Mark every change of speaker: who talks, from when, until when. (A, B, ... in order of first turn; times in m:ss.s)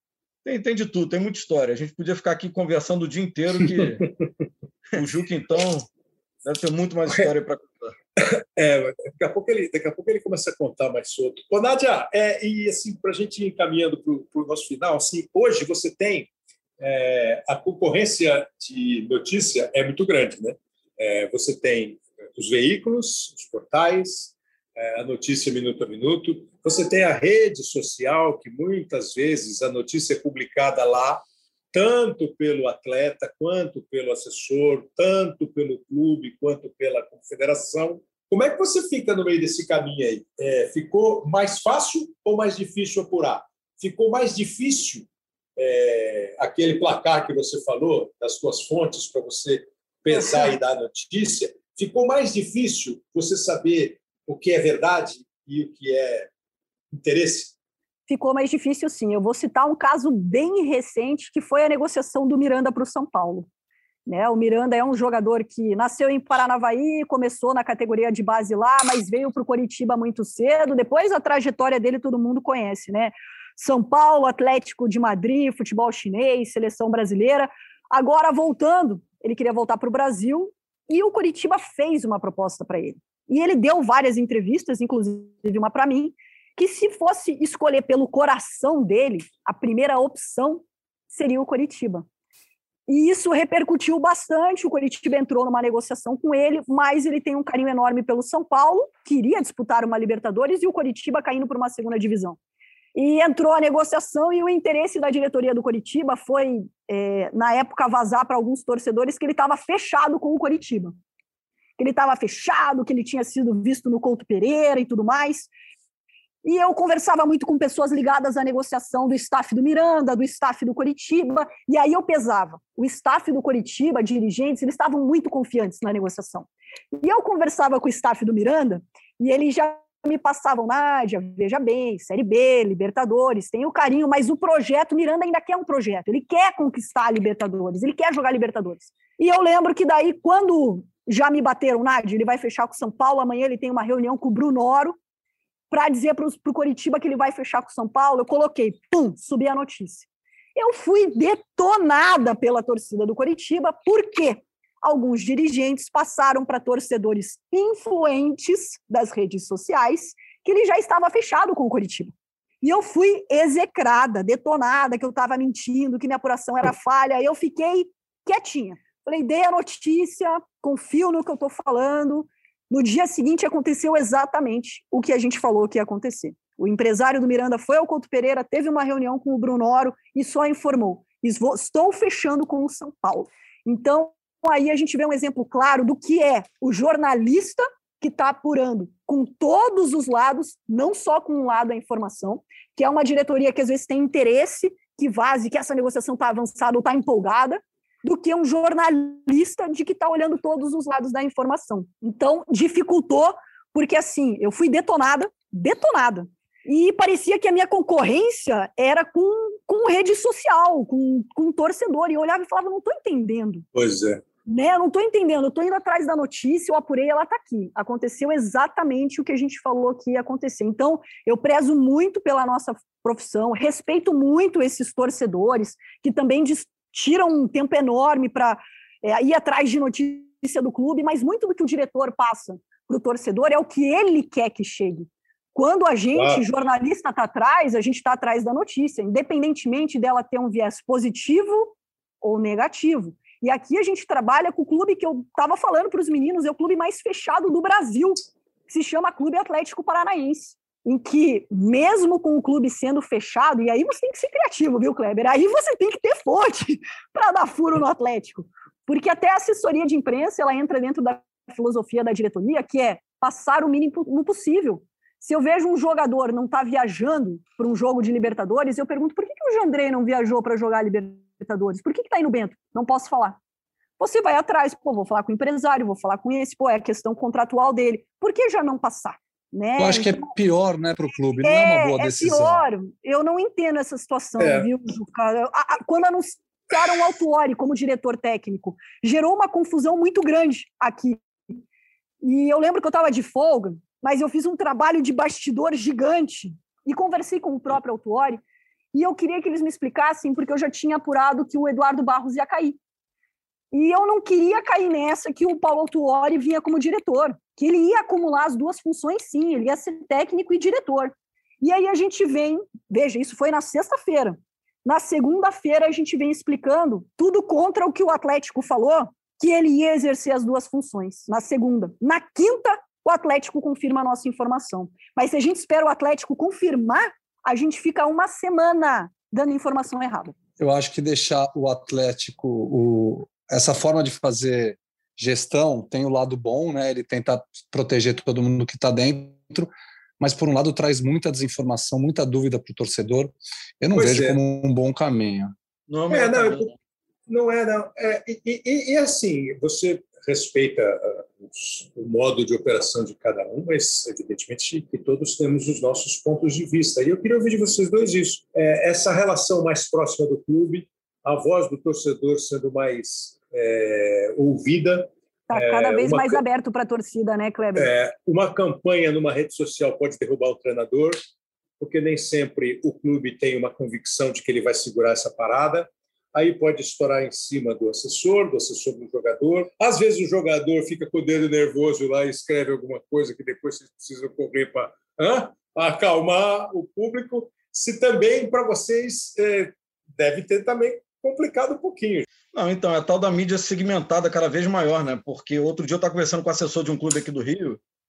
0:00.4-0:04.1 A
0:04.9-0:05.9 A
0:06.4-0:07.9 A
0:08.2-0:16.3 B
0:16.8-0:45.0 B
0:45.6-0:56.3 B
0:50.1-0:50.5 C
0:56.9-0:57.5 B
0:58.1-1:03.5 C
1:04.1-1:32.0 C
1:32.9-1:42.4 C
1:42.9-1:50.9 C
1:51.8-1:55.5 C
1:56.4-2:25.0 C
2:25.7-3:33.6 C
3:33.7-3:34.2 B
3:34.5-4:33.4 C
3:56.1-3:56.4 B
4:34.0-4:40.3 C
4:39.8-4:42.6 D
4:41.4-4:51.2 C
4:44.4-4:44.7 B
4:52.2-4:58.4 C
4:58.9-5:02.8 C
5:03.7-5:30.3 C
5:30.6-5:45.5 D
5:43.9-5:44.4 B
5:45.9-5:46.7 A
5:46.1-5:46.7 B
5:47.3-6:06.4 B
6:05.5-6:07.9 C
6:07.8-6:11.2 B
6:11.8-6:32.2 B
6:32.5-6:37.8 A